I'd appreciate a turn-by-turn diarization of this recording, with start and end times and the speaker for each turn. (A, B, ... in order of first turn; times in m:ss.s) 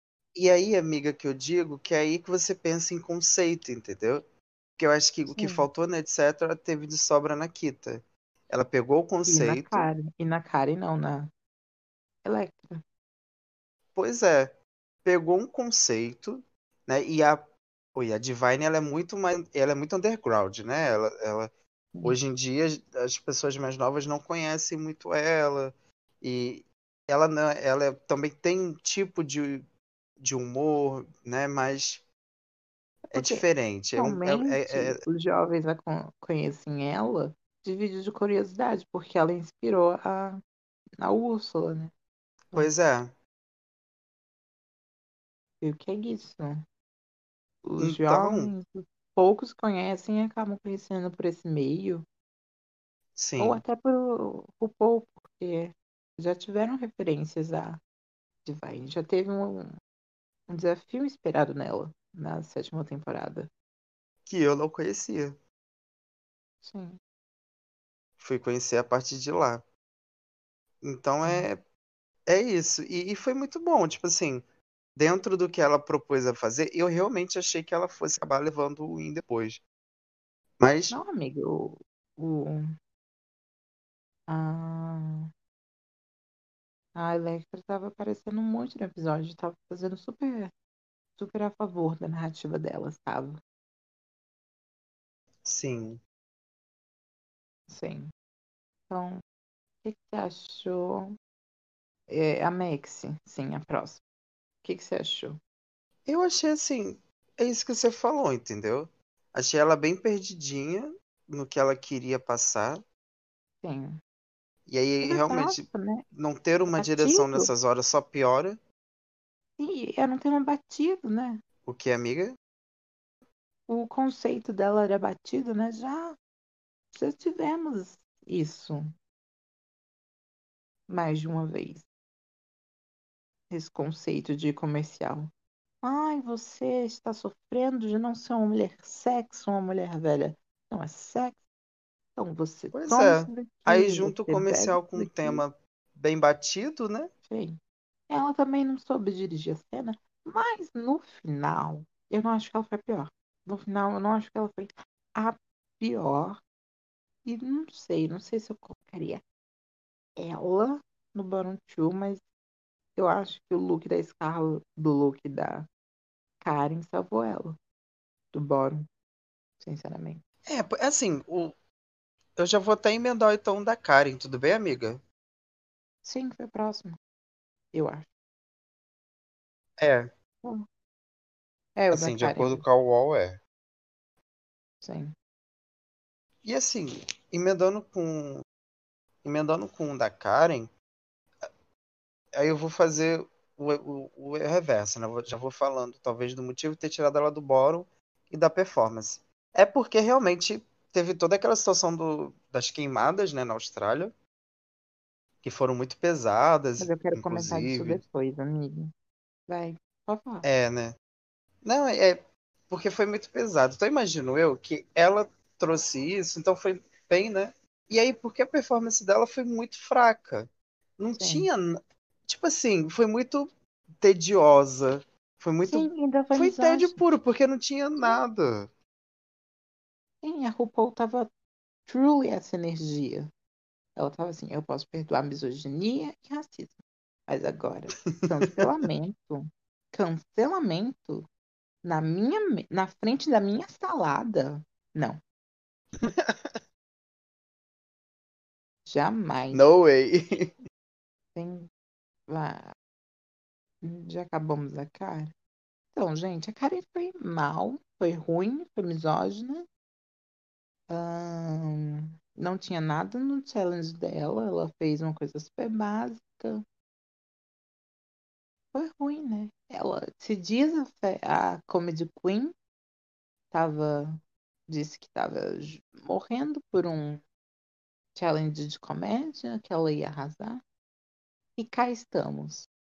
0:00.3-0:04.2 A
0:04.8-0:09.9 A
0:05.3-0:05.7 B
0:09.2-0:11.3 B
0:12.2-0:12.8 B
0:13.9-0:21.5 A
0:22.0-0:29.6 A
0:30.2-0:32.0 A
0:33.1-0:33.4 B
0:33.1-0:35.0 A
0:34.0-0:40.4 B
0:41.0-0:41.9 B
0:42.5-0:43.1 A
0:45.6-0:46.6 B
0:47.6-0:52.0 B
0:47.8-0:48.5 A
0:53.2-0:53.6 A
0:53.4-0:57.8 B
0:58.4-0:59.7 B
1:00.5-1:03.5 B
1:04.2-1:05.4 A
1:06.6-1:07.0 B
1:08.2-1:09.6 A
1:10.8-1:11.6 A
1:11.2-1:11.5 B
1:12.3-1:14.4 A
1:15.0-1:19.6 A
1:20.6-1:21.0 A
1:20.9-1:22.8 B
1:24.3-1:25.3 B
1:26.9-1:30.5 B
1:31.2-1:33.4 B
1:35.4-1:36.0 A
1:37.7-1:38.1 B
1:38.9-1:39.2 B
1:39.8-1:41.1 B
1:42.1-1:44.0 B
1:44.6-1:45.4 B
1:46.1-1:52.8 A
1:53.6-1:54.0 B
1:54.7-1:58.6 A
1:55.0-1:56.0 B
1:56.7-1:57.5 B
1:59.6-2:01.4 B
2:01.6-2:02.4 A
2:03.7-2:06.2 B
2:06.9-2:08.8 B
2:10.9-2:11.9 B
2:13.5-2:15.3 B
2:15.8-2:21.4 B
2:22.1-2:25.4 B
2:22.7-2:27.1 A
2:27.3-2:36.4 B
2:37.2-2:39.2 B
2:40.2-2:42.2 B
2:43.0-2:45.7 B
2:46.4-2:47.6 B
2:48.3-2:48.9 B
2:49.6-2:50.2 B
2:50.4-2:51.5 A
2:52.4-2:55.0 A
2:56.0-2:57.0 B
2:57.7-2:58.1 B
2:59.8-3:00.1 A
3:01.8-3:02.6 B
3:01.9-3:03.4 A
3:04.8-3:05.1 B
3:06.4-3:08.4 A
3:09.2-3:10.7 A
3:12.3-3:24.1 A
3:25.4-3:28.0 A
3:26.8-3:28.9 B
3:29.5-3:30.5 B
3:30.4-3:30.9 A
3:31.6-3:43.5 A
3:41.2-3:41.5 B
3:44.0-3:48.7 A
3:45.7-3:47.0 B
3:50.2-3:51.3 B
3:51.9-3:53.3 B
3:54.0-4:01.2 B
3:58.0-3:58.7 A
4:01.8-4:05.2 B
4:06.0-4:06.6 A
4:08.8-4:09.6 B
4:09.5-4:10.5 A
4:11.3-4:11.7 B
4:12.3-4:12.7 B
4:13.8-4:15.3 B
4:15.9-4:19.6 B
4:20.9-4:26.6 B
4:28.7-4:32.5 B
4:33.5-4:37.2 B
4:38.1-4:40.6 B
4:41.6-4:42.7 B